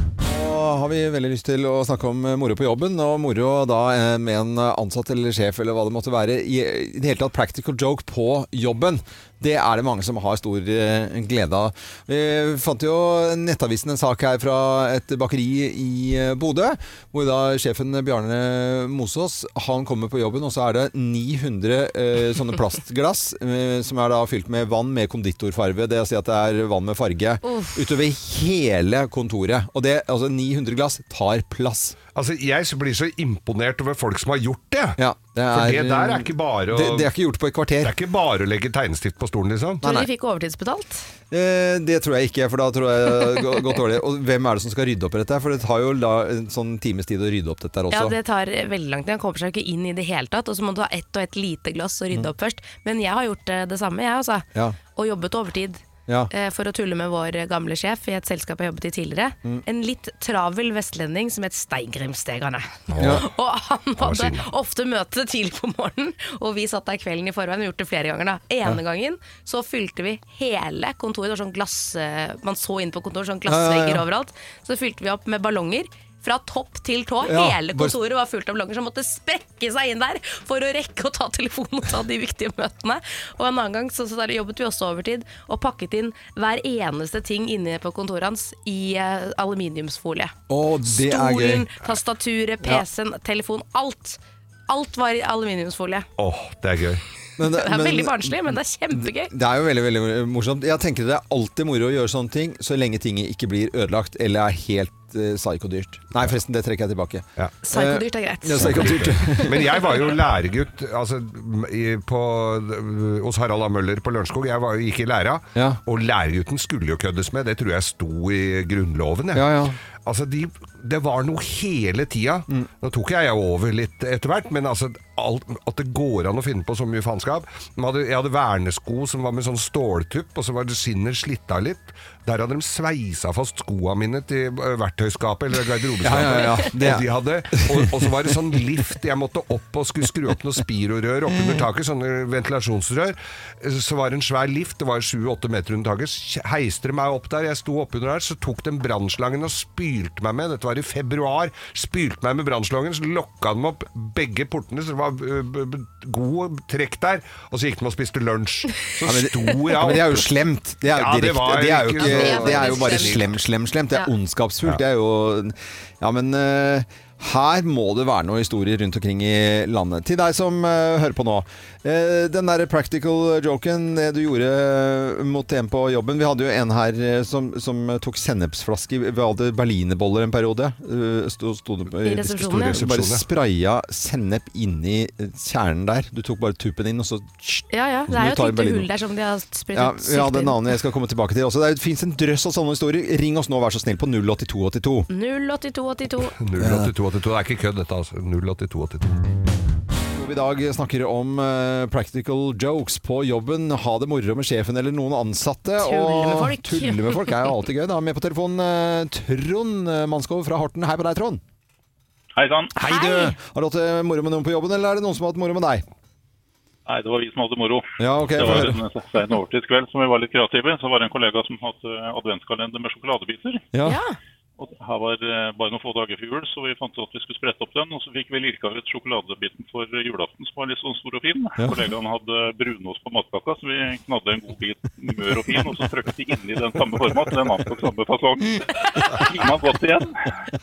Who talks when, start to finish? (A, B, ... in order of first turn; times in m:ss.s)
0:00.2-0:32.0 A
0:27.4-0:27.9 B
0:32.1-0:35.0 C
0:35.0-0:37.9 A
0:35.5-0:37.1 C
0:37.8-0:39.8 C
0:39.8-0:40.1 A
0:39.8-0:41.1 B
0:41.3-0:48.2 A
0:47.9-1:36.1 B
1:02.9-1:03.3 C
1:03.0-1:03.3 A
1:04.0-1:04.5 C
1:13.4-1:14.0 A
1:17.2-1:18.0 A
1:30.5-1:31.7 A
1:36.2-1:37.0 C
1:37.4-1:49.8 A
1:37.5-1:39.3 B
1:47.6-1:49.6 B
1:48.6-2:40.3 C
1:55.5-1:55.8 A
1:59.3-1:59.8 A
2:16.0-2:18.3 A
2:21.3-2:21.6 A
2:39.0-3:08.9 A
2:40.9-2:43.4 C
2:42.0-2:43.1 B
3:02.0-3:02.8 B
3:02.4-3:03.2 C
3:07.7-3:10.6 B
3:09.7-3:15.1 A
3:15.1-3:16.3 B
3:16.4-3:19.1 C
3:16.6-3:16.9 A
3:20.1-3:31.4 A
3:25.8-3:27.4 B
3:32.3-3:32.7 D
3:32.7-3:35.8 A
3:32.8-3:33.4 B
3:36.8-3:43.6 D
3:38.0-3:38.8 A
3:43.7-3:44.0 A
3:43.8-3:44.2 B
3:44.6-4:00.2 D
3:51.6-3:51.8 A